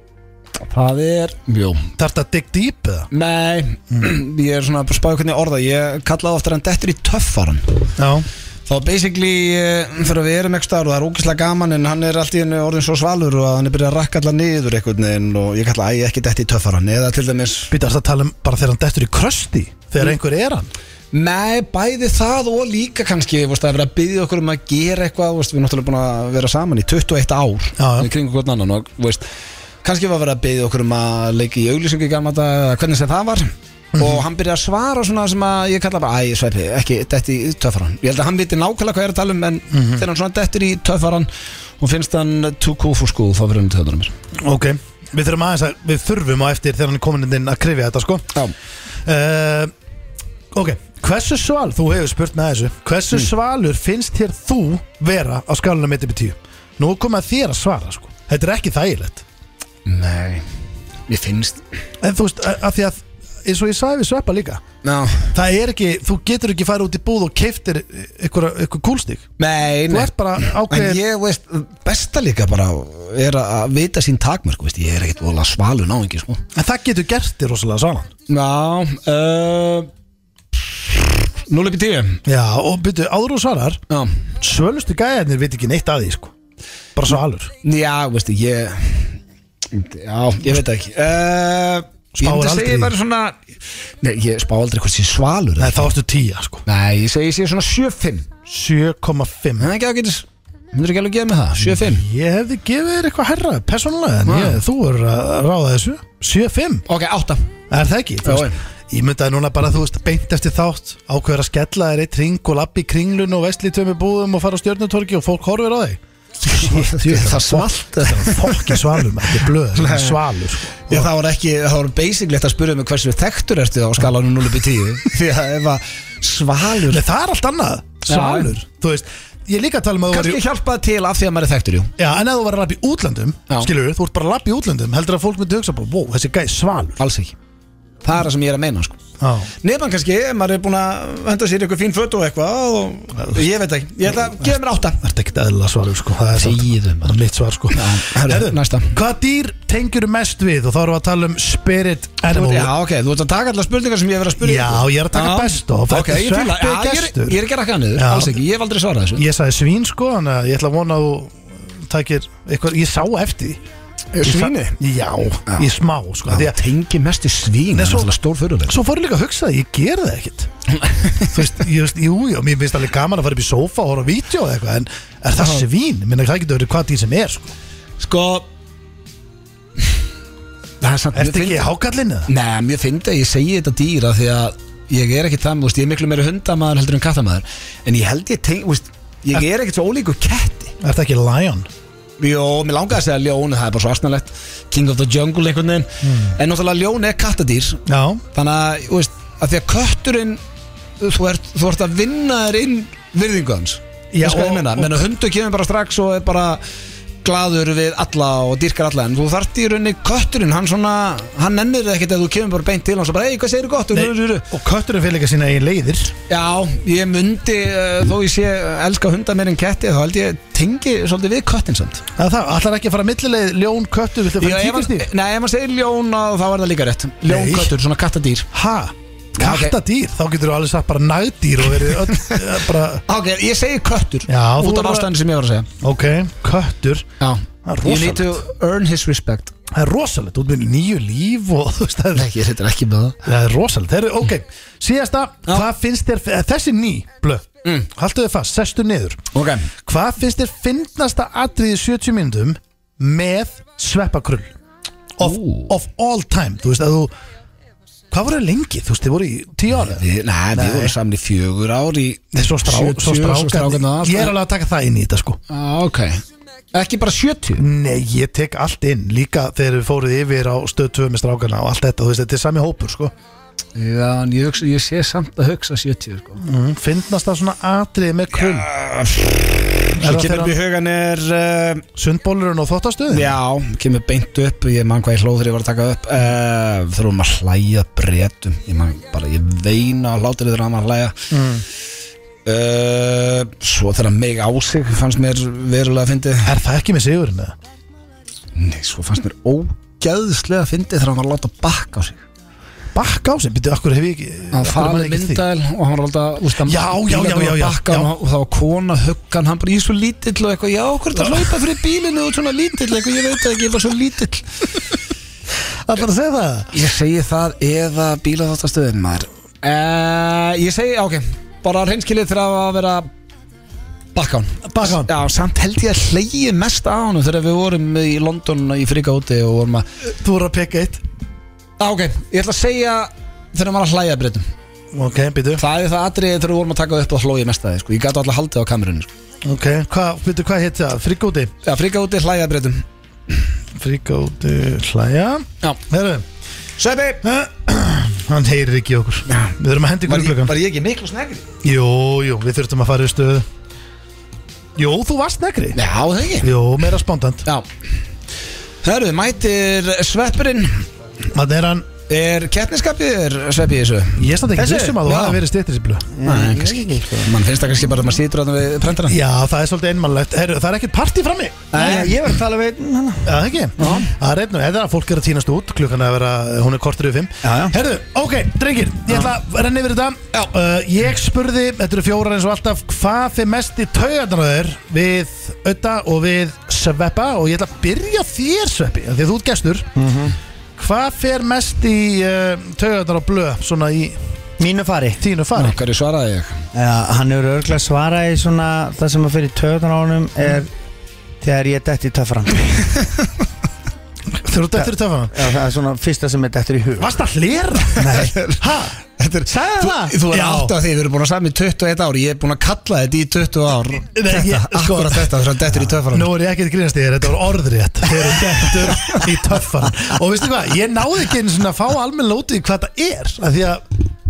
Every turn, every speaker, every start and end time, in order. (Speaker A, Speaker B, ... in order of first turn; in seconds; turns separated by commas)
Speaker A: 0.6-1.9, Speaker B: 2.0-3.1, Speaker A: 3.1-7.8, Speaker B: 8.0-8.3, Speaker A: 8.7-17.7, Speaker B: 17.7-20.7, Speaker A: 21.1-29.2, Speaker B: 27.8-28.1, Speaker A: 29.8-41.3, Speaker B: 34.0-34.2, Speaker B: 39.7-40.0, Speaker A: 41.8-44.1, Speaker B: 44.4-48.3, Speaker B: 49.0-49.7, Speaker B: 50.5-59.2, Speaker A: 59.9-60.5, Speaker A: 61.1-61.6, Speaker B: 62.0-64.6, Speaker A: 64.8-65.3, Speaker B: 65.3-69.3, Speaker A: 69.4-76.4, Speaker B: 69.9-71.0, Speaker B: 76.5-78.1, Speaker A: 78.3-79.9, Speaker A: 80.6-82.2, Speaker B: 82.3-83.8, Speaker B: 84.4-86.3, Speaker B: 87.0-87.5, Speaker A: 87.6-89.2, Speaker A: 89.7-93.4, Speaker B: 92.2-93.0, Speaker A: 94.0-95.9, Speaker B: 95.6-96.7, Speaker A: 96.7-98.3, Speaker B: 98.5-99.7, Speaker A: 99.6-102.0, Speaker B: 101.6-106.8, Speaker A: 104.3-104.6, Speaker A: 106.9-107.5, Speaker B: 107.7-121.1, Speaker A: 108.2-108.6, Speaker A: 116.5-118.9, Speaker A: 119.8-120.2, Speaker A: 120.9-127.0, Speaker B: 126.9-130.4, Speaker A: 128.1-128.5, Speaker A: 130.1-131.9, Speaker B: 132.0-137.0, Speaker A: 137.0-137.3, Speaker A: 138.0-139.0, Speaker B: 139.2-139.5, Speaker A: 139.6-145.0, Speaker B: 143.2-143.5, Speaker B: 144.1-152.7, Speaker A: 146.3-149.0, Speaker A: 152.3-159.2, Speaker B: 154.4-157.4, Speaker B: 157.9-158.4, Speaker B: 159.2-163.6, Speaker A: 164.1-164.8, Speaker B: 164.2-166.6, Speaker A: 166.3-168.8, Speaker B: 167.7-168.1, Speaker B: 168.7-170.5, Speaker A: 170.8-171.3, Speaker B: 171.3-177.5, Speaker A: 175.4-175.6, Speaker A: 178.0-178.5, Speaker A: 180.8-181.7, Speaker B: 181.1-182.3, Speaker A: 182.3-190.7, Speaker B: 190.8-191.7, Speaker A: 192.2-197.8, Speaker B: 196.0-196.4, Speaker B: 197.9-198.2, Speaker A: 198.3-200.4, Speaker A: 201.0-206.6, Speaker B: 204.1-205.1, Speaker A: 207.2-214.4, Speaker B: 213.9-216.1, Speaker A: 216.3-222.0, Speaker B: 222.2-225.1, Speaker A: 224.4-228.5, Speaker B: 227.2-227.7, Speaker B: 228.5-233.1, Speaker A: 229.4-229.8, Speaker A: 233.1-235.7, Speaker B: 234.3-235.1, Speaker B: 235.8-237.1, Speaker A: 237.2-239.5, Speaker B: 237.7-238.4, Speaker B: 239.7-242.3, Speaker A: 242.2-243.2, Speaker B: 243.2-249.2, Speaker A: 249.3-249.7, Speaker B: 249.8-254.5, Speaker B: 255.2-257.1, Speaker A: 255.2-255.7, Speaker B: 258.1-261.0, Speaker A: 259.8-264.3, Speaker B: 262.3-265.4, Speaker A: 265.5-266.2, Speaker A: 266.7-267.6, Speaker B: 267.6-273.1, Speaker A: 273.8-276.4, Speaker B: 276.4-278.7, Speaker A: 278.4-281.9, Speaker B: 280.0-280.6, Speaker B: 282.0-283.4, Speaker A: 283.1-291.2, Speaker B: 291.3-291.6, Speaker A: 292.4-296.5, Speaker B: 296.4-297.6, Speaker A: 298.6-302.2, Speaker B: 302.9-305.4, Speaker A: 304.5-314.5, Speaker B: 306.6-308.1, Speaker B: 311.2-311.5, Speaker B: 315.9-316.7, Speaker A: 316.7-323.1, Speaker A: 324.1-329.9, Speaker B: 324.7-325.1, Speaker B: 330.1-331.0, Speaker A: 331.8-334.5, Speaker B: 334.9-335.6, Speaker A: 335.6-339.1, Speaker B: 339.4-341.5, Speaker A: 341.6-342.8, Speaker B: 343.8-346.2, Speaker A: 346.8-347.2, Speaker B: 347.2-350.6, Speaker A: 350.1-351.5, Speaker B: 351.6-353.5, Speaker B: 354.8-355.8, Speaker A: 355.8-356.5, Speaker B: 356.4-357.5, Speaker A: 358.8-360.9, Speaker B: 361.3-361.9, Speaker A: 362.1-364.2, Speaker B: 364.2-366.1, Speaker C: 364.6-365.0, Speaker A: 365.0-365.4, Speaker C: 366.2-367.3, Speaker A: 366.2-369.2, Speaker B: 369.1-372.1, Speaker A: 371.7-372.2, Speaker C: 371.7-373.4, Speaker B: 373.2-389.9, Speaker A: 373.8-374.1, Speaker C: 377.4-377.8, Speaker C: 390.0-390.3, Speaker B: 390.8-394.2, Speaker C: 394.6-395.2, Speaker B: 395.2-395.8, Speaker A: 395.6-396.6, Speaker C: 396.7-400.7, Speaker C: 401.4-402.9, Speaker B: 404.3-405.4, Speaker C: 404.8-407.1, Speaker B: 407.0-409.0, Speaker C: 408.0-408.3, Speaker A: 408.0-408.6, Speaker A: 409.2-416.3, Speaker C: 409.5-410.2, Speaker B: 410.3-410.8, Speaker B: 414.1-415.3, Speaker B: 415.9-423.8, Speaker A: 418.7-419.2